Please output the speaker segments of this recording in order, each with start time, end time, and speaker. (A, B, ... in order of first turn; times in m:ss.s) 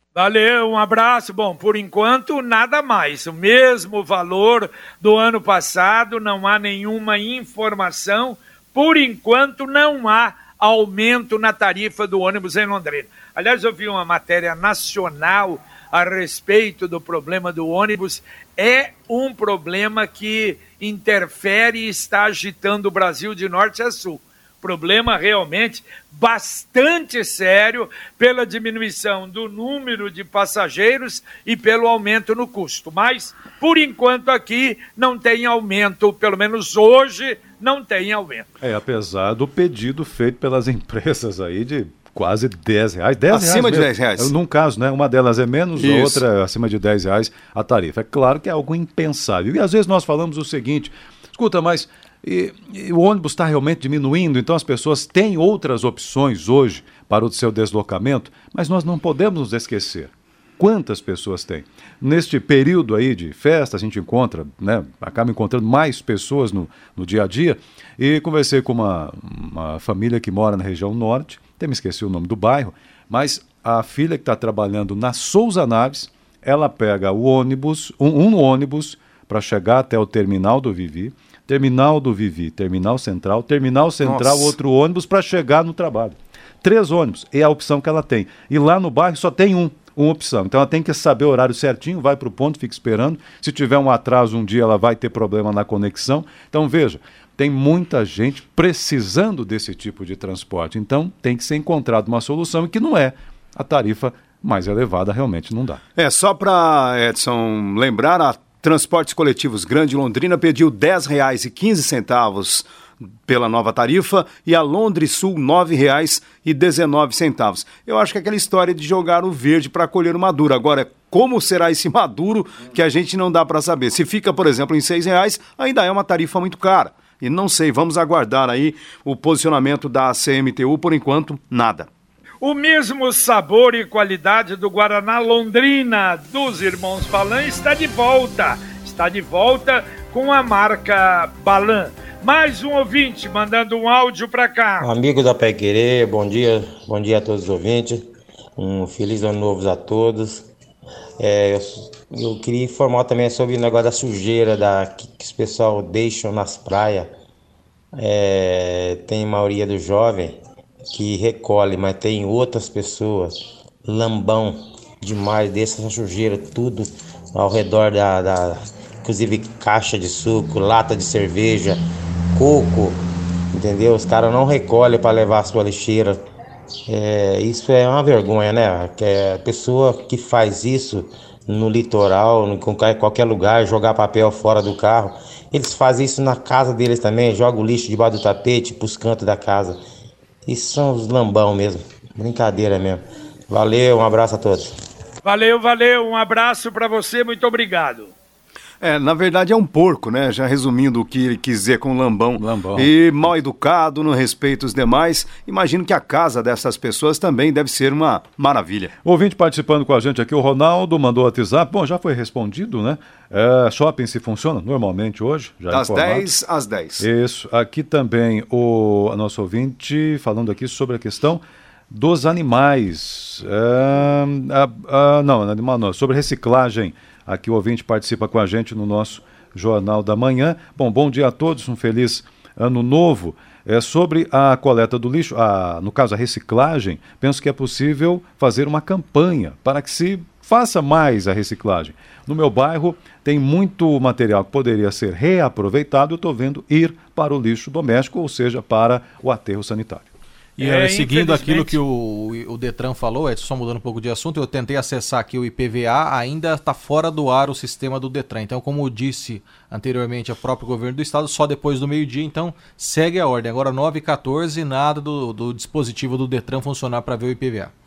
0:00.2-0:38.5 A
0:38.6-1:45.8 B
0:43.3-0:44.3 C
0:45.8-0:46.2 C
1:24.0-1:24.5 C
1:46.0-1:52.7 C
1:53.3-2:11.9 C
2:12.4-2:24.9 A
2:24.8-2:30.5 D
2:31.2-2:37.1 D
2:38.0-2:40.4 D
2:40.9-2:51.8 D
2:52.3-2:53.0 D
2:53.5-2:56.2 D
2:56.9-3:09.8 D
3:10.5-3:14.7 D
3:15.2-3:18.1 A
3:18.8-3:28.9 C
3:22.4-3:22.9 B
3:29.0-3:36.3 B
3:35.7-3:37.0 C
3:37.0-4:10.1 B
4:10.6-4:27.7 E
4:10.6-4:11.8 A